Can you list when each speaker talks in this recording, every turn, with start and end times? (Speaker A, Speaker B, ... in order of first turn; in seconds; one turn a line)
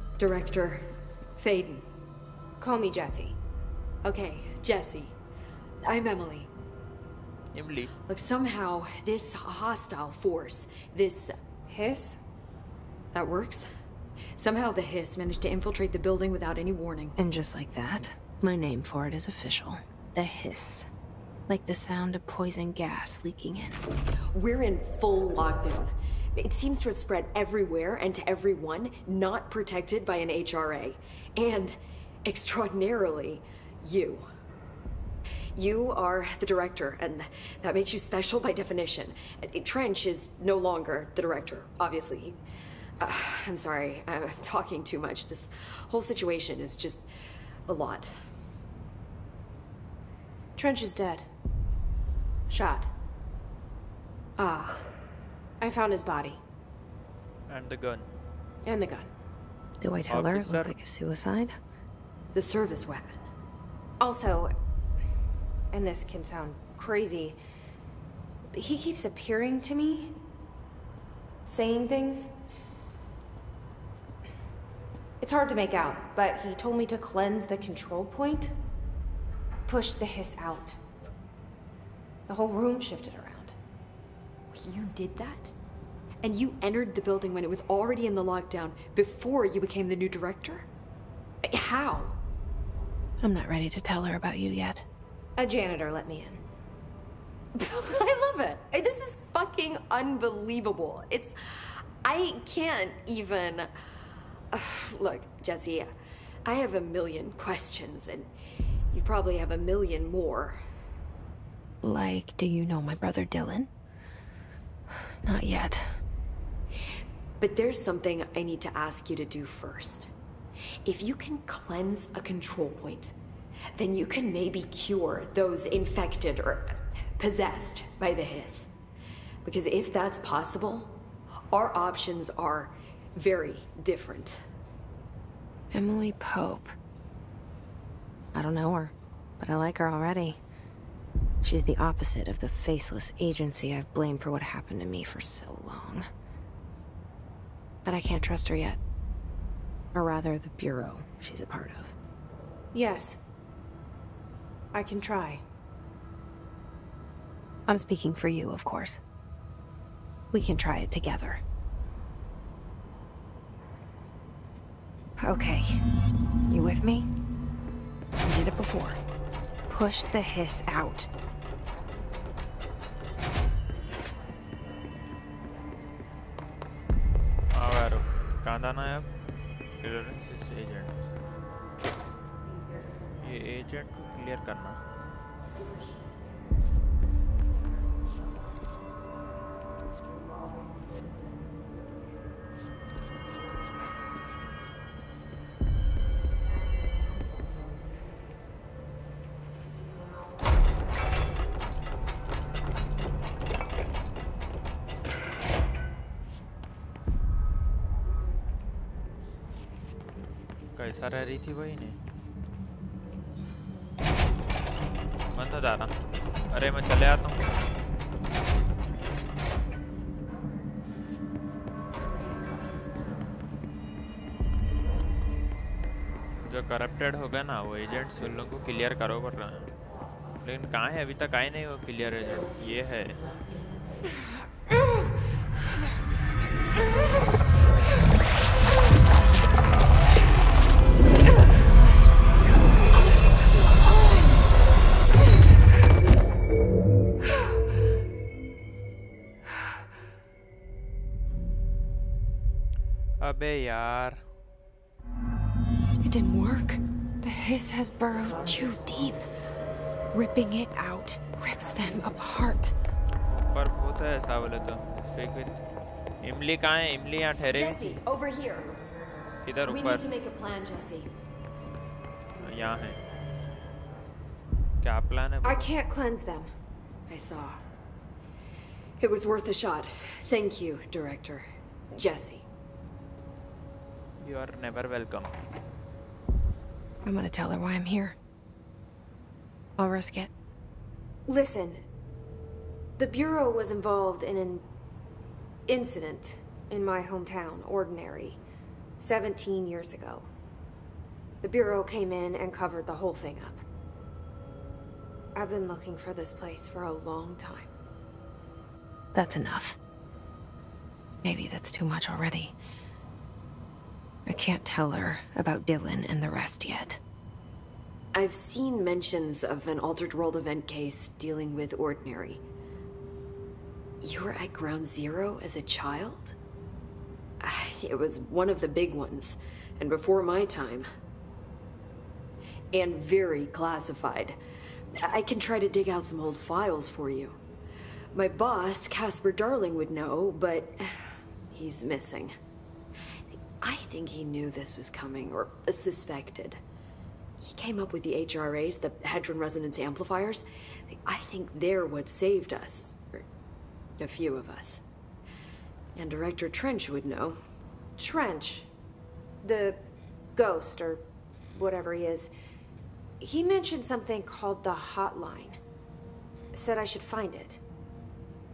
Speaker A: 0.2-1.9
Speaker B: 2.6-3.4
Speaker A: 4.0-5.2
Speaker A: 5.8-6.5
Speaker C: 7.5-7.9
Speaker A: 8.1-11.3
Speaker B: 11.7-12.2
Speaker A: 13.1-13.7
Speaker A: 14.4-17.1
Speaker B: 17.2-20.9
Speaker B: 21.5-23.8
Speaker A: 24.3-34.3
Speaker A: 35.5-42.4
Speaker A: 43.0-47.1
Speaker A: 47.7-48.2
Speaker B: 50.6-51.3
Speaker B: 52.5-52.9
Speaker A: 54.4-54.9
Speaker B: 55.6-56.4
Speaker C: 57.5-58.1
Speaker B: 58.6-59.1
Speaker B: 59.8-61.6
Speaker C: 60.1-60.8
Speaker A: 62.3-63.2
Speaker B: 64.0-64.5
Speaker B: 65.7-67.4
Speaker B: 68.5-70.2
Speaker B: 71.5-72.3
Speaker B: 75.2-78.5
Speaker B: 79.7-80.8
Speaker B: 82.3-83.6
Speaker A: 84.5-85.5
Speaker A: 86.2-90.7
Speaker A: 91.4-92.2
Speaker B: 93.2-94.9
Speaker B: 95.4-96.4
Speaker A: 97.5-103.7
Speaker A: 104.5-105.9
Speaker A: 106.5-108.3
Speaker A: 108.9-110.6
Speaker B: 111.8-113.7
Speaker B: 115.2-116.0
Speaker A: 117.4-120.1
Speaker A: 120.8-123.1
Speaker A: 123.8-128.7
Speaker A: 129.4-131.0
Speaker A: 131.5-134.4
Speaker B: 135.7-136.8
Speaker B: 138.3-140.4
Speaker B: 141.4-146.1
Speaker B: 147.8-148.8
Speaker B: 149.9-152.0
Speaker B: 152.7-153.2
Speaker B: 154.7-155.4
Speaker B: 157.7-159.0
Speaker B: 160.3-161.4
Speaker B: 165.2-165.8
Speaker B: 166.5-167.1
Speaker B: 168.2-169.0
Speaker B: 169.7-171.1
Speaker C: 177.5-179.1
Speaker C: 179.8-181.1
Speaker C: 183.2-184.8
Speaker C: 210.8-212.0
Speaker C: 215.3-215.9
Speaker C: 216.5-217.4
Speaker C: 226.5-229.7
Speaker C: 230.4-233.2
Speaker C: 253.2-254.2
Speaker B: 256.0-259.3
Speaker B: 260.1-262.8
Speaker C: 263.3-265.6
Speaker C: 266.2-268.0
Speaker A: 267.5-268.8
Speaker C: 269.4-270.0
Speaker A: 269.7-271.1
Speaker C: 272.4-273.0
Speaker C: 274.8-275.7
Speaker B: 275.4-276.5
Speaker A: 277.1-277.6
Speaker A: 279.0-282.5
Speaker C: 284.2-285.3
Speaker B: 287.0-288.2
Speaker B: 289.8-290.3
Speaker B: 291.3-291.8
Speaker B: 293.0-294.7
Speaker B: 295.7-298.4
Speaker B: 299.0-300.3
Speaker B: 301.4-303.6
Speaker B: 305.4-307.7
Speaker B: 309.1-309.8
Speaker B: 311.2-312.6
Speaker B: 314.3-317.0
Speaker A: 318.1-322.4
Speaker A: 324.0-326.4
Speaker A: 327.4-330.9
Speaker A: 332.7-334.4
Speaker A: 335.0-337.4
Speaker A: 338.1-342.3
Speaker A: 343.6-346.6
Speaker A: 347.4-353.2
Speaker A: 354.0-354.8
Speaker A: 356.0-357.4
Speaker B: 358.0-358.7
Speaker B: 359.4-359.8
Speaker B: 360.4-362.3
Speaker B: 363.2-365.6
Speaker B: 366.5-367.6